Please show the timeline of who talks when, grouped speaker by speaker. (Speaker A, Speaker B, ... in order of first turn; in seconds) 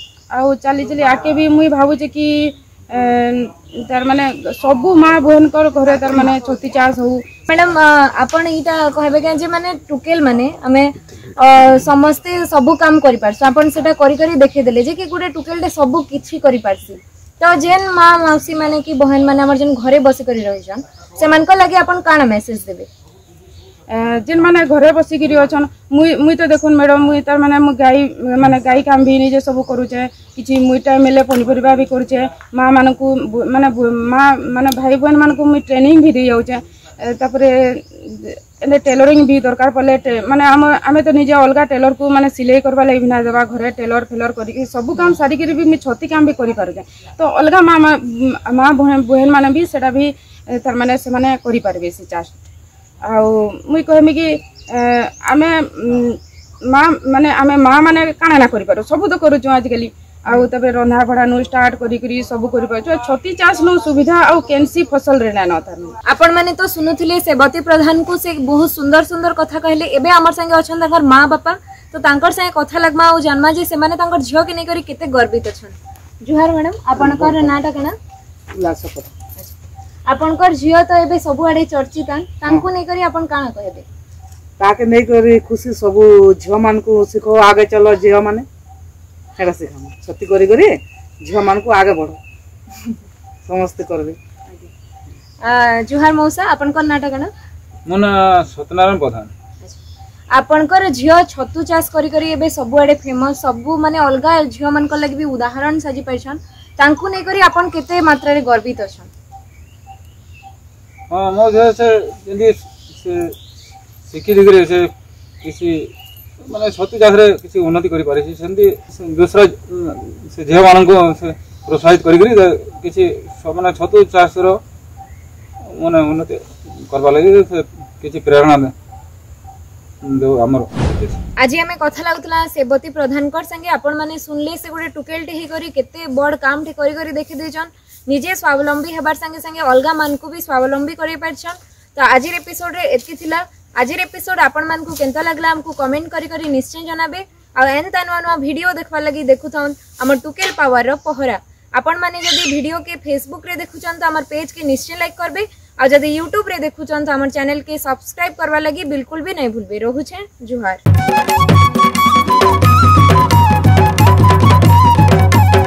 Speaker A: 0.3-7.3, 23.9-52.3, 53.1-66.0
Speaker B: 7.5-22.9, 66.0-78.0, 80.1-83.8, 95.4-97.3, 100.3-109.1, 131.4-160.8
Speaker C: 77.0-77.5, 78.5-79.1, 84.6-88.5, 89.4-92.2, 93.5-94.2
Speaker D: 97.8-99.3, 111.1-113.3, 114.1-114.9, 115.4-115.8, 116.5-124.6, 125.7-128.7, 130.0-131.2